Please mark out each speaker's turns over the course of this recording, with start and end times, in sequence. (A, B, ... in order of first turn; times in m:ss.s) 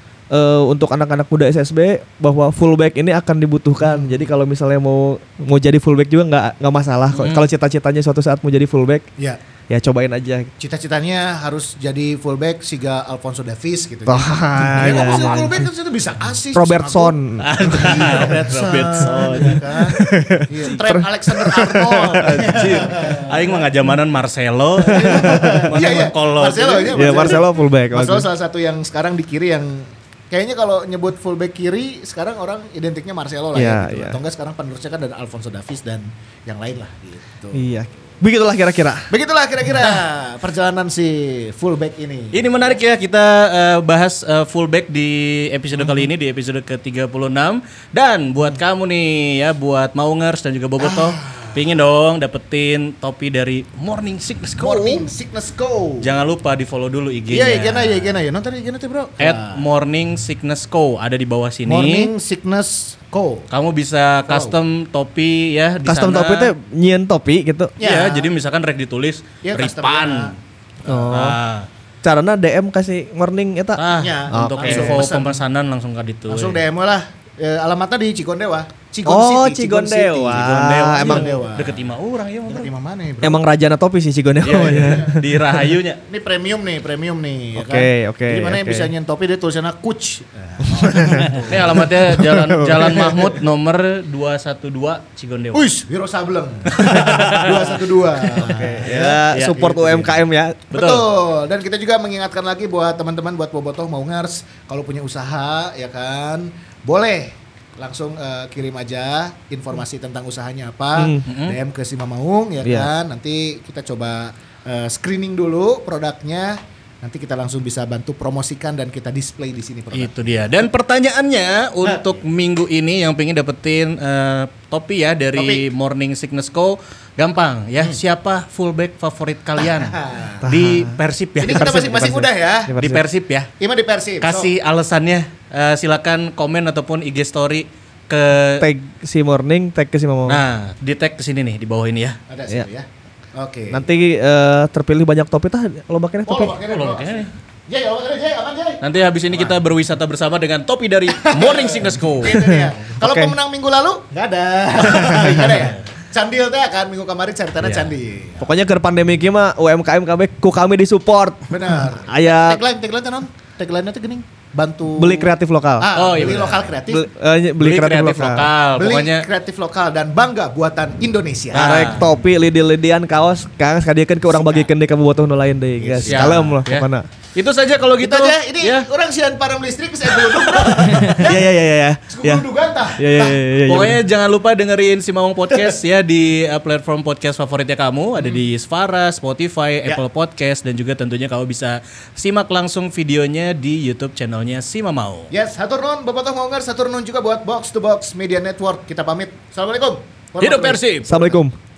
0:00.3-0:09.0 A
0:03.8-0:04.3 B
0:07.1-0:07.5 C
0:09.7-0:10.5 A
0:10.6-0:23.7 B
0:14.0-0:15.6 A
0:14.8-0:15.3 C
0:16.5-0:18.4 A
0:17.4-0:20.0 C
0:19.0-0:22.8 A
0:21.9-0:27.4 C
0:24.8-0:37.7 B
0:24.8-0:25.8 A
0:26.9-0:28.3 A
0:33.5-0:34.2 A
0:37.5-0:39.1 A
0:39.1-0:42.8 B
0:42.3-0:55.1 C
0:50.8-0:51.6 B
0:54.6-0:56.1 B
0:56.0-0:58.2 C
0:57.3-0:59.6 B
0:59.2-1:02.1 C
1:01.7-1:03.5 B
1:03.5-1:06.5 C
1:04.3-1:04.6 B
1:05.8-1:07.7 A
1:07.8-1:08.3 B
1:07.8-1:10.3 C
1:09.4-1:10.3 B
1:10.8-1:11.4 A
1:10.9-1:11.7 C
1:12.0-1:15.1 A
1:13.8-1:16.6 C
1:14.0-1:15.4 B
1:16.3-1:21.9 B
1:19.0-1:21.3 A
1:20.3-1:22.7 C
1:22.5-1:23.4 B
1:23.2-1:25.2 A
1:24.4-1:25.2 B
1:24.4-1:26.0 C
1:26.0-1:31.9 B
1:27.6-1:28.9 A
1:30.7-1:31.4 A
1:31.5-1:35.6 C
1:31.9-1:33.3 A
1:35.5-1:39.5 B
1:36.7-1:37.8 C
1:36.8-1:37.2 A
1:38.4-1:40.7 A
1:39.3-1:40.1 C
1:40.7-1:41.0 C
1:40.7-2:00.5 B
1:50.9-1:51.2 A
1:51.2-1:51.6 C
1:52.6-1:52.9 A
1:59.9-2:12.0 C
2:01.9-2:02.2 B
2:05.3-2:05.7 B
2:09.6-2:10.4 B
2:10.4-2:13.0 A
2:11.4-2:12.7 B
2:12.7-2:13.5 C
2:13.6-2:14.5 B
2:14.2-2:18.6 C
2:18.6-2:20.4 A
2:20.3-2:22.2 C
2:22.3-2:23.8 B
2:23.7-2:26.6 A
2:26.2-2:29.6 B
2:26.7-2:27.3 C
2:28.8-2:32.4 C
2:31.2-2:38.5 B
2:32.4-2:33.3 A
2:34.9-2:35.5 A
2:37.6-2:37.9 C
2:38.4-2:42.6 A
2:41.5-2:47.0 B
2:44.9-2:45.9 A
2:45.9-2:46.7 C
2:46.9-2:48.5 A
2:47.6-2:49.3 C
2:48.8-2:51.9 B
2:51.5-2:52.0 C
2:51.5-2:57.1 A
2:54.4-2:54.7 B
2:55.8-2:56.5 B
2:56.0-2:58.9 C
2:58.0-3:01.4 B
3:00.2-3:01.2 C
3:00.8-3:04.0 A
3:02.1-3:03.4 B
3:03.6-3:15.3 C
3:15.3-3:21.3 B
3:20.4-3:21.1 C
3:21.0-3:21.5 A